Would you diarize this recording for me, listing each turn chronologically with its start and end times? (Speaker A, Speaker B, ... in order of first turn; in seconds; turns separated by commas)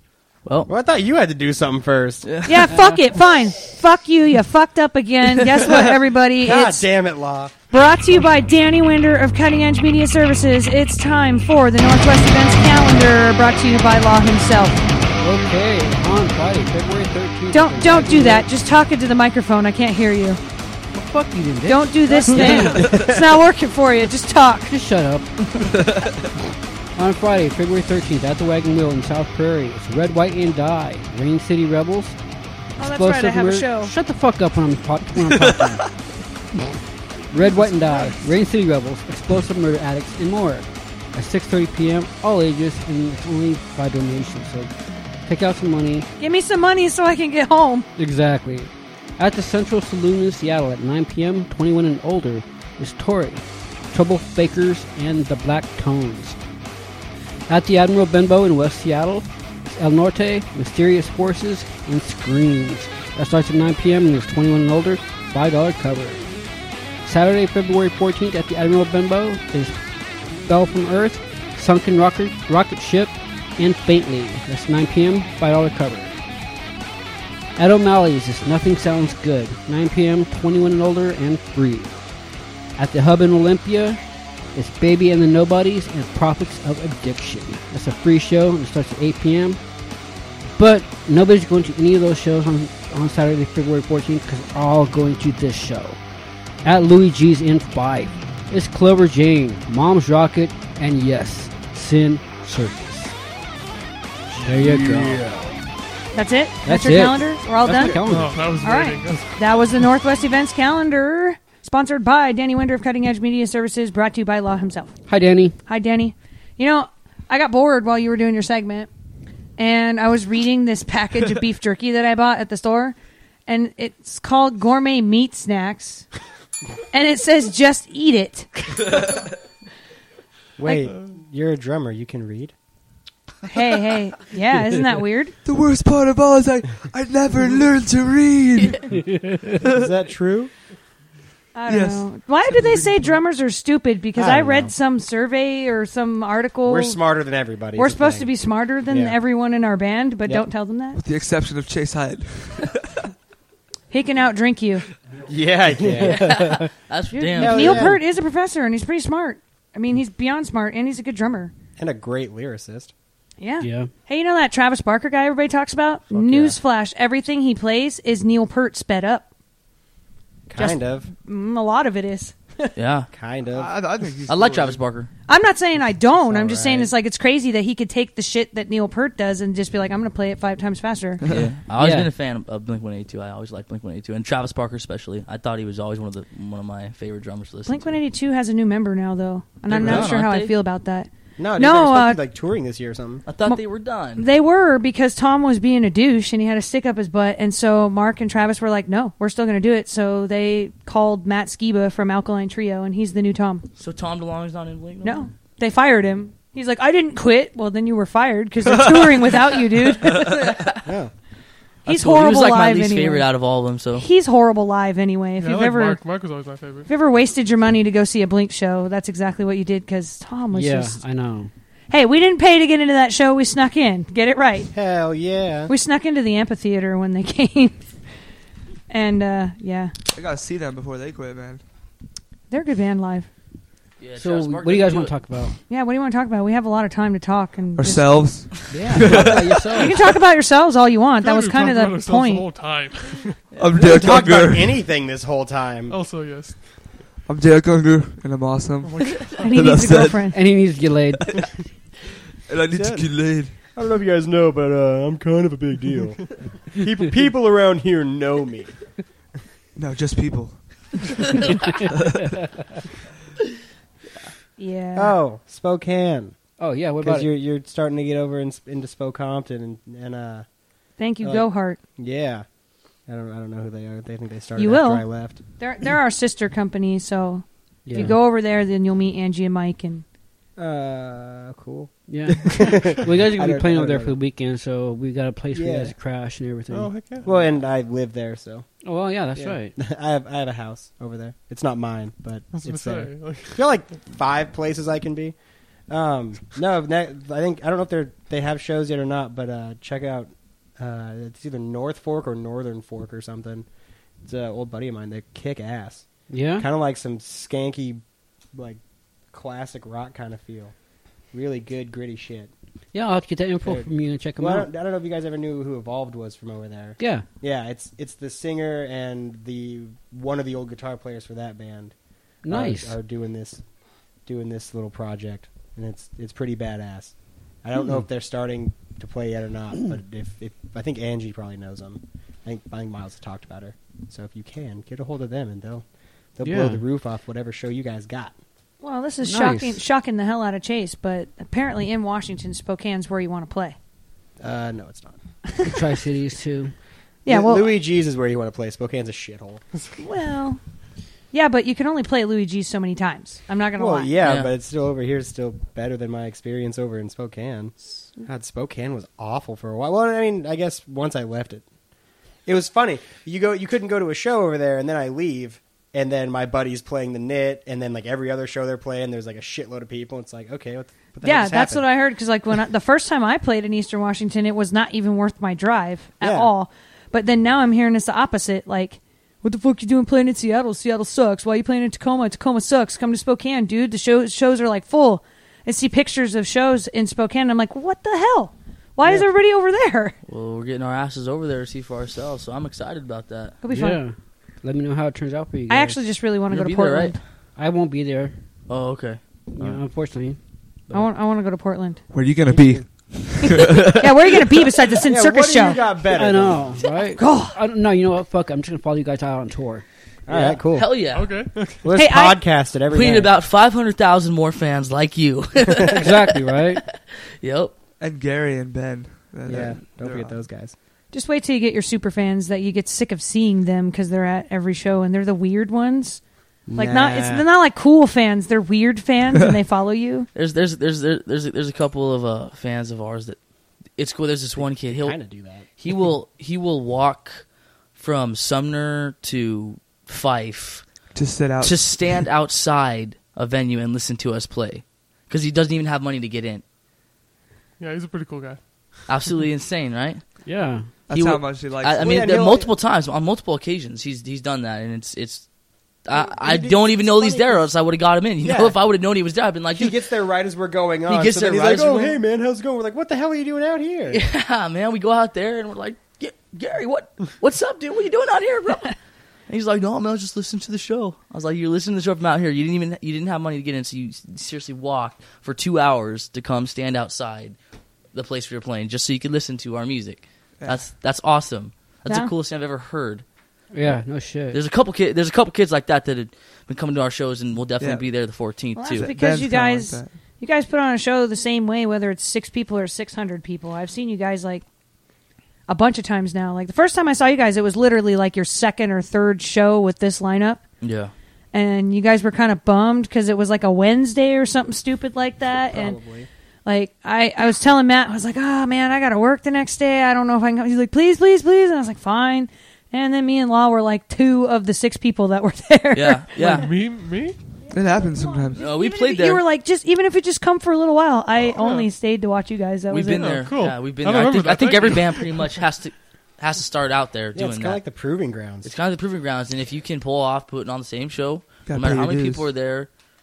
Speaker A: 0.4-0.7, Speaker B: 0.7-2.3, Speaker A: 2.2-2.6, Speaker C: 2.5-6.9, Speaker D: 2.7-3.0, Speaker B: 6.4-7.5, Speaker C: 7.7-14.8, Speaker D: 15.2-18.5, Speaker C: 17.5-20.4, Speaker D: 20.9-23.1, Speaker C: 21.6-24.7, Speaker E: 22.4-23.1, Speaker D: 24.7-25.4, Speaker D: 26.9-32.2, Speaker D: 32.8-35.8, Speaker C: 32.8-33.9, Speaker E: 35.4-35.9, Speaker D: 37.3-46.1, Speaker C: 46.2-47.9, Speaker D: 48.0-56.4, Speaker D: 57.5-76.1, Speaker D: 77.5-103.2, Speaker D: 104.3-105.3, Speaker C: 106.1-118.9, Speaker D: 106.6-108.6, Speaker F: 107.9-109.8, Speaker D: 115.1-115.6, Speaker C: 119.6-126.1, Speaker C: 126.9-129.0, Speaker B: 130.6-132.5, Speaker C: 133.5-135.3, Speaker E: 135.4-138.9, Speaker D: 138.9-139.4, Speaker B: 139.7-140.5, Speaker C: 141.5-147.0, Speaker E: 141.7-143.2, Speaker B: 144.1-144.7, Speaker B: 146.6-149.2, Speaker C: 147.7-151.0, Speaker E: 150.9-152.8, Speaker C: 153.9-154.8, Speaker B: 155.2-156.7, Speaker A: 156.0-157.9, Speaker D: 156.1-156.7, Speaker C: 157.1-161.5, Speaker B: 157.3-158.0, Speaker B: 161.8-162.9, Speaker C: 163.4-169.3, Speaker D: 163.6-163.9, Speaker A: 166.1-166.6, Speaker B: 170.5-171.1, Speaker C: 170.6-172.7, Speaker A: 172.8-173.1, Speaker B: 173.1-173.8, Speaker E: 173.5-174.8, Speaker A: 174.2-175.1, Speaker C: 175.3-181.2, Speaker B: 176.1-176.9, Speaker E: 181.2-181.6, Speaker A: 181.3-188.0, Speaker D: 181.8-182.1, Speaker C: 187.7-192.2, Speaker A: 189.7-190.5, Speaker B: 189.7-190.2, Speaker B: 191.4-193.2, Speaker A: 193.3-194.2, Speaker C: 193.4-203.6, Speaker A: 203.8-205.3, Speaker C: 205.0-210.5, Speaker E: 208.8-209.1, Speaker A: 210.3-210.8, Speaker B: 210.8-211.1, Speaker A: 211.8-214.1, Speaker C: 211.8-213.3, Speaker C: 213.9-216.3, Speaker F: 215.4-216.9, Speaker C: 216.9-221.0, Speaker D: 220.5-221.5, Speaker C: 221.9-224.7, Speaker B: 224.7-225.7, Speaker C: 225.7-228.0, Speaker C: 228.9-229.9, Speaker E: 230.1-231.6, Speaker C: 232.5-233.3, Speaker A: 234.0-235.3, Speaker D: 234.2-235.6, Speaker C: 235.7-238.5, Speaker E: 237.8-239.7, Speaker D: 238.7-239.9, Speaker C: 239.7-242.5, Speaker F: 241.2-243.4, Speaker A: 243.5-244.2, Speaker E: 243.6-244.8, Speaker B: 243.8-246.0, Speaker F: 245.9-247.0, Speaker E: 247.2-250.4, Speaker F: 248.8-249.4, Speaker C: 249.4-250.4, Speaker D: 250.2-251.4, Speaker E: 252.5-253.5, Speaker B: 252.7-258.8, Speaker E: 259.8-261.0, Speaker C: 264.6-265.1, Speaker B: 264.9-270.5, Speaker D: 266.6-267.3, Speaker C: 271.0-271.8, Speaker B: 271.2-272.5, Speaker B: 273.0-275.4, Speaker C: 274.6-280.1, Speaker D: 277.8-278.2, Speaker B: 280.6-284.1, Speaker D: 282.1-287.0, Speaker B: 285.5-285.9, Speaker F: 286.7-287.3, Speaker B: 287.2-312.5, Speaker D: 288.8-289.8, Speaker F: 292.5-293.8, Speaker D: 306.3-306.7, Speaker D: 312.9-314.7, Speaker B: 313.6-338.4, Speaker D: 317.0-317.2, Speaker D: 322.4-323.0, Speaker D: 327.8-328.0, Speaker D: 336.4-336.8, Speaker C: 338.8-343.8, Speaker D: 339.2-339.8, Speaker B: 344.4-345.2, Speaker D: 345.7-346.8, Speaker C: 347.2-347.7, Speaker B: 347.2-349.6, Speaker C: 350.0-350.6, Speaker C: 351.3-354.1, Speaker B: 353.8-361.7, Speaker A: 354.2-354.5, Speaker B: 362.4-371.9, Speaker C: 371.2-390.1, Speaker B: 376.2-376.5, Speaker A: 390.2-393.6, Speaker C: 393.6-394.0, Speaker D: 393.7-396.0, Speaker C: 395.7-397.2, Speaker A: 396.5-397.2, Speaker D: 397.6-398.4, Speaker A: 398.7-399.2, Speaker D: 399.5-401.1, Speaker C: 400.9-402.0, Speaker E: 402.1-403.9, Speaker B: 402.4-402.9, Speaker C: 404.0-405.8, Speaker B: 405.1-406.8, Speaker D: 406.1-410.4, Speaker C: 407.2-407.5, Speaker B: 410.3-411.1, Speaker A: 410.7-411.4, Speaker F: 411.0-411.9, Speaker B: 411.8-413.4, Speaker C: 411.9-412.4, Speaker A: 412.9-416.4, Speaker D: 415.9-416.8, Speaker A: 417.4-417.7, Speaker E: 418.0-420.4, Speaker B: 419.5-420.7, Speaker C: 421.1-426.2, Speaker B: 426.7-427.4, Speaker C: 426.7-430.3, Speaker A: 430.3-441.1, Speaker B: 434.5-435.7, Speaker E: 441.1-442.2, Speaker A: 441.6-446.6, Speaker F: 447.8-449.0, Speaker A: 449.1-450.4, Speaker D: 450.4-451.0, Speaker E: 451.1-452.3, Speaker A: 451.1-459.9, Speaker B: 452.0-452.7, Speaker B: 456.1-457.8, Speaker B: 458.4-458.8, Speaker B: 459.7-464.2, Speaker A: 461.1-462.2, Speaker A: 464.1-477.6, Speaker A: 478.1-483.2, Speaker E: 480.6-480.9, Speaker D: 483.7-484.6, Speaker A: 484.5-489.1, Speaker E: 487.8-488.1, Speaker C: 488.8-494.6, Speaker E: 488.9-490.1, Speaker C: 495.7-500.7, Speaker A: 500.8-501.1, Speaker C: 501.5-506.0, Speaker B: 505.7-506.3, Speaker C: 506.6-516.2, Speaker A: 515.9-516.7, Speaker F: 516.4-517.4, Speaker E: 517.7-518.6, Speaker C: 517.9-523.4, Speaker A: 518.6-519.4, Speaker F: 521.4-521.9, Speaker A: 522.9-527.8, Speaker F: 523.2-525.5, Speaker B: 527.3-528.7, Speaker A: 528.6-532.9, Speaker E: 531.6-532.5